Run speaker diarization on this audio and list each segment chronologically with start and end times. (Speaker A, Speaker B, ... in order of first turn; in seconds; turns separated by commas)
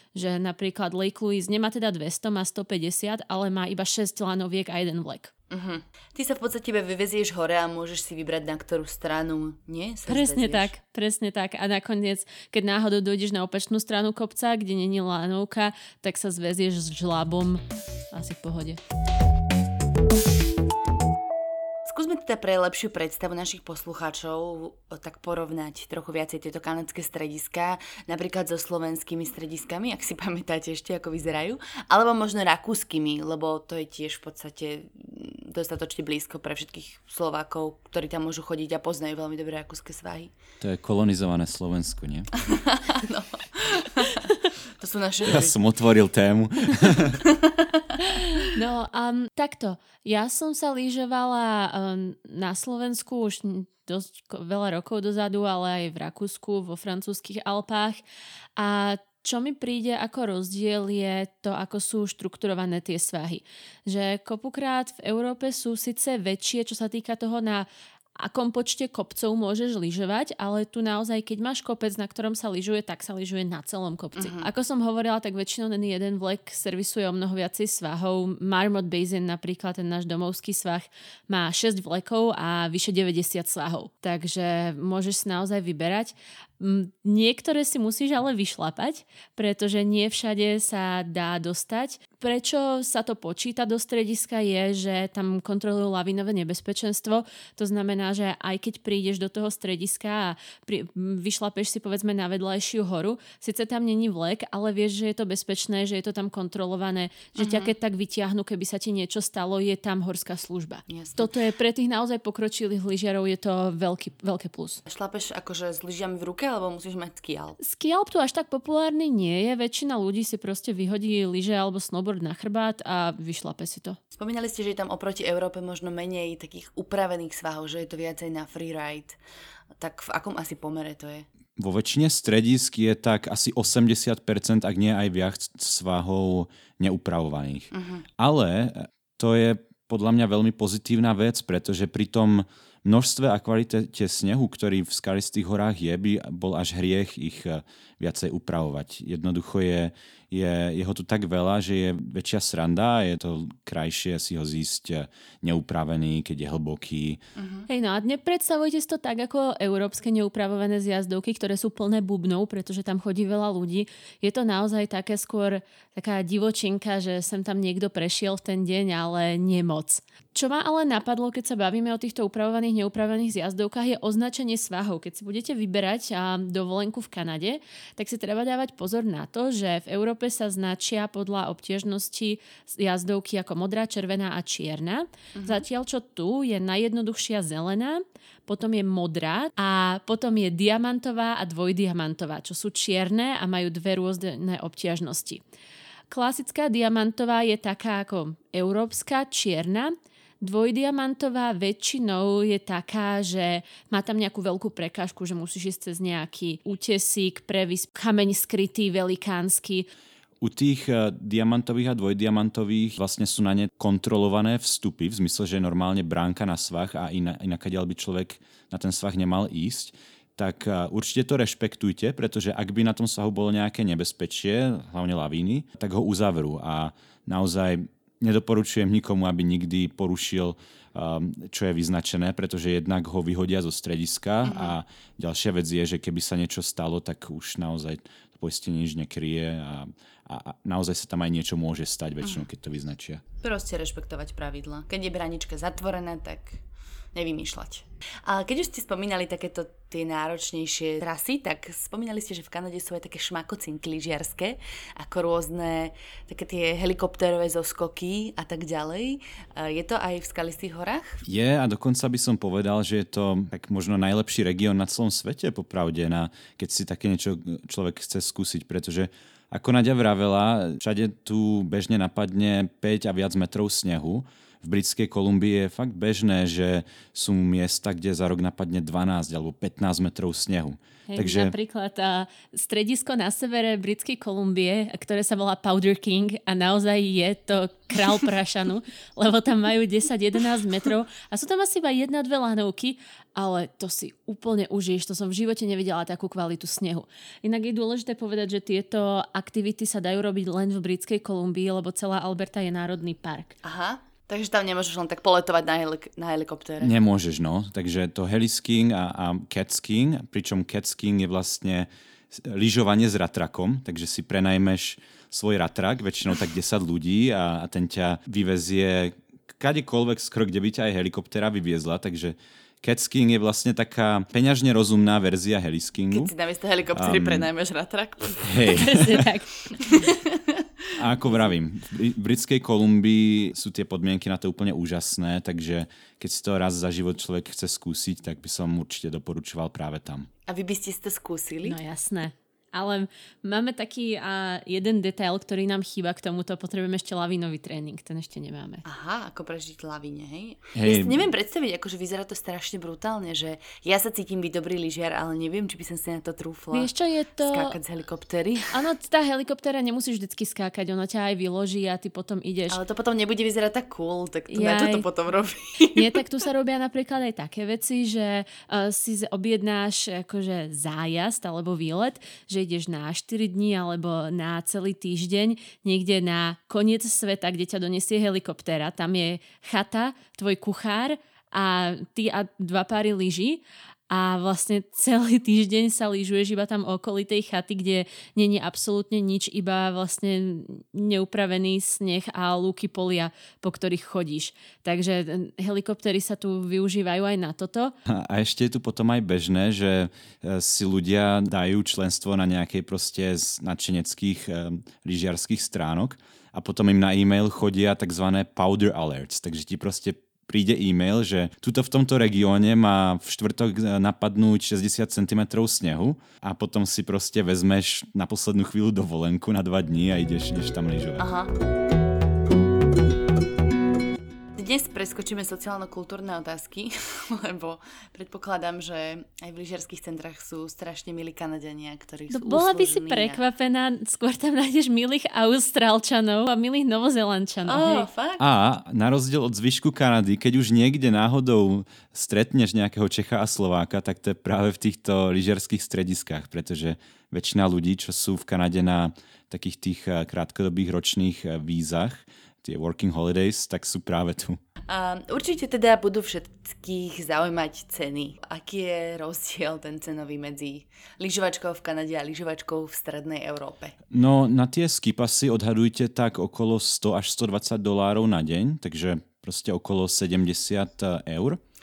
Speaker A: 0.1-5.3, Speaker B: 5.5-10.7, Speaker A: 10.1-18.8, Speaker B: 21.9-40.3, Speaker C: 40.6-42.3, Speaker B: 42.4-44.3, Speaker B: 44.8-45.5, Speaker C: 45.2-47.2, Speaker B: 47.2-47.9, Speaker A: 48.0-58.0, Speaker A: 58.6-114.8, Speaker B: 74.2-74.5, Speaker B: 107.4-107.7, Speaker B: 110.9-111.3, Speaker B: 114.9-117.6, Speaker A: 117.6-124.0, Speaker B: 124.1-129.2, Speaker B: 129.8-131.3, Speaker C: 131.6-157.2, Speaker B: 137.7-138.1, Speaker B: 157.3-157.7, Speaker A: 157.7-195.4, Speaker B: 185.3-185.7, Speaker A: 196.1-209.9, Speaker C: 210.4-243.2, Speaker B: 234.4-234.8, Speaker B: 243.4-246.6, Speaker B: 247.1-261.2, Speaker C: 261.2-281.5, Speaker A: 281.1-303.6, Speaker B: 303.6-306.9, Speaker C: 306.8-326.3, Speaker B: 326.1-328.8, Speaker C: 326.9-327.5, Speaker C: 328.4-329.3, Speaker A: 328.7-330.1, Speaker B: 329.8-330.6, Speaker C: 331.0-340.3, Speaker B: 340.5-341.8, Speaker A: 341.6-348.8, Speaker B: 348.9-358.7, Speaker C: 350.8-351.3, Speaker A: 356.7-357.8, Speaker A: 358.7-362.8, Speaker B: 362.7-366.1, Speaker A: 364.5-365.1, Speaker A: 365.9-397.9, Speaker C: 398.1-421.3, Speaker B: 421.2-421.5, Speaker B: 424.6-433.4, Speaker A: 432.3-438.1, Speaker B: 437.7-438.4, Speaker C: 438.4-454.6, Speaker B: 454.9-464.0, Speaker C: 464.1-471.6